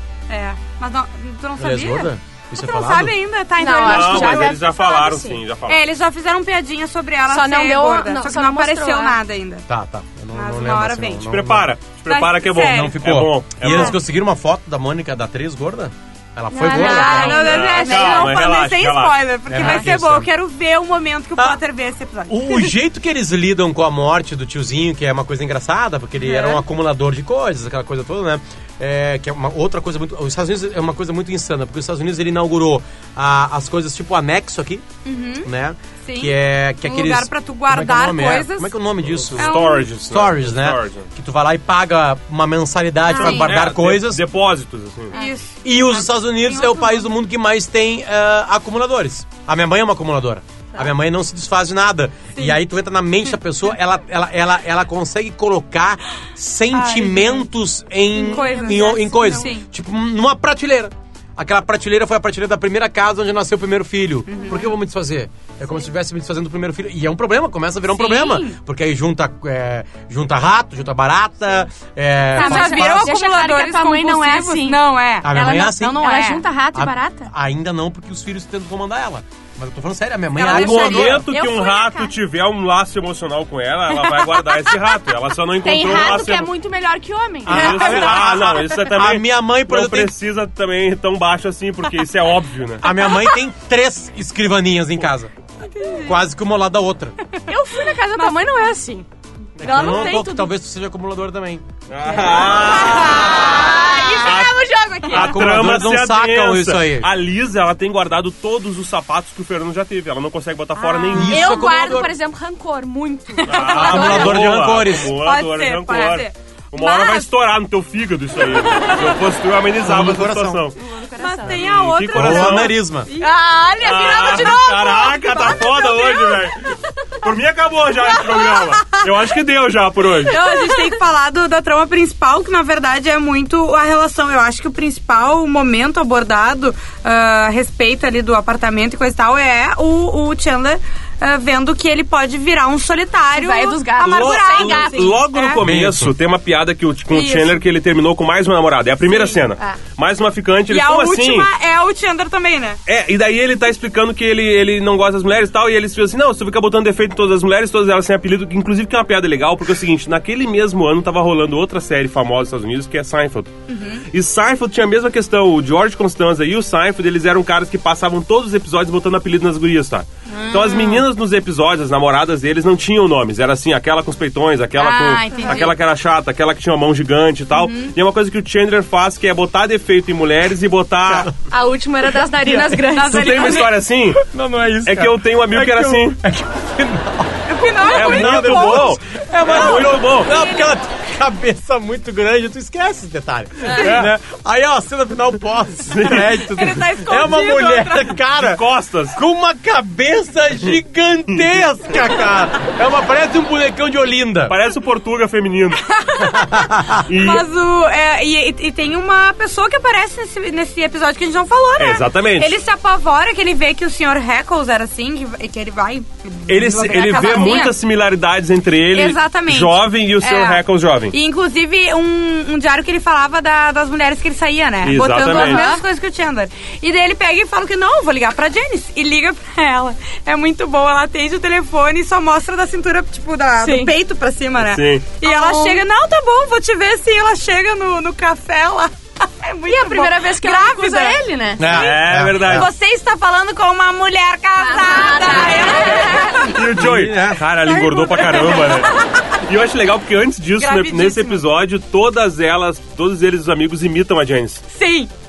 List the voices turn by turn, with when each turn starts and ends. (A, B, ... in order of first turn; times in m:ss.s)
0:00.3-0:04.6 A
0:01.6-0:03.1 B
0:03.6-0:05.4 C
0:03.8-0:05.8 D
0:05.6-0:09.7 A
0:07.3-0:09.2 C
0:09.7-0:11.7 B
0:10.3-0:11.3 A
0:11.3-0:14.0 D
0:12.1-0:13.0 A
0:12.6-0:17.5 B
0:13.7-0:13.9 A
0:16.5-0:18.4 C
0:16.7-0:22.7 A
0:17.2-0:19.2 D
0:19.5-0:20.3 B
0:21.4-0:21.6 B
0:22.3-0:34.9 B
0:26.2-0:26.6 A
0:35.0-0:35.5 A
0:35.4-0:44.2 B
0:36.0-0:38.7 A
0:39.2-0:41.1 D
0:39.4-0:39.9 A
0:43.1-0:43.6 A
0:43.2-0:45.2 D
0:45.1-0:47.1 A
0:45.6-1:13.1 B
0:52.4-0:52.6 A
0:56.7-0:57.5 A
0:58.2-0:59.5 C
0:58.2-0:59.7 A
1:04.3-1:04.7 A
1:07.9-1:08.6 A
1:12.3-1:17.3 C
1:12.4-1:16.5 A
1:15.2-1:16.1 B
1:16.7-1:21.3 B
1:20.4-1:21.2 A
1:20.4-1:26.5 D
1:20.6-1:22.1 C
1:25.6-1:28.5 C
1:27.4-1:30.2 B
1:27.5-1:32.8 D
1:32.8-1:35.3 B
1:32.8-1:33.4 C
1:35.6-1:36.2 A
1:36.0-1:37.2 B
1:37.5-1:39.1 C
1:38.1-1:38.5 A
1:39.6-1:41.6 B
1:39.6-1:40.5 C
1:41.9-1:51.6 D
1:42.1-1:45.5 C
1:43.1-1:43.6 A
1:45.1-1:47.1 B
1:50.8-1:54.6 C
1:51.1-1:52.1 B
1:53.3-1:54.3 A
1:53.4-2:00.8 D
1:53.7-1:55.2 B
1:54.9-1:57.3 A
1:58.4-1:59.2 A
1:59.8-2:00.7 B
2:00.8-2:01.6 C
2:01.2-2:06.4 A
2:01.4-2:02.8 D
2:02.1-2:03.1 B
2:03.2-2:06.3 C
2:03.8-2:10.4 D
2:08.3-2:09.0 A
2:10.2-2:25.6 A
2:10.3-2:11.0 C
2:23.3-2:25.2 C
2:24.0-2:31.5 D
2:25.6-2:26.1 B
2:27.1-2:27.6 A
2:29.1-2:29.4 A
2:30.7-2:32.8 A
2:32.9-3:01.3 D
2:43.7-2:44.1 A
2:50.3-2:51.0 A
2:54.8-2:55.8 A
2:55.3-2:55.6 C
2:57.5-2:58.0 A
3:01.5-3:03.7 C
3:02.4-3:03.7 A
3:03.0-3:04.2 D
3:04.2-3:24.6 B
3:04.8-3:06.2 D
3:07.5-3:10.8 A
3:07.9-3:10.3 D
3:13.7-3:13.9 A
3:13.7-3:14.1 D
3:15.9-3:16.4 D
3:16.4-3:18.2 A
3:18.4-3:19.2 D
3:24.5-3:25.8 D
3:25.8-3:37.8 A
3:26.2-3:27.0 B
3:27.1-3:27.5 D
3:31.8-3:32.6 D
3:36.5-3:41.2 D
3:38.9-4:06.6 A
3:44.8-3:45.7 D
3:45.2-3:45.8 C
3:53.6-3:53.9 C
3:54.6-3:55.1 D
3:55.2-3:55.8 C
3:59.7-4:01.7 C
4:01.6-4:02.7 B
4:01.7-4:02.7 D
4:04.6-4:06.6 C
4:05.9-4:14.6 D
4:06.7-4:07.4 B
4:07.6-4:09.3 A
4:10.6-4:11.4 A
4:14.7-4:15.1 A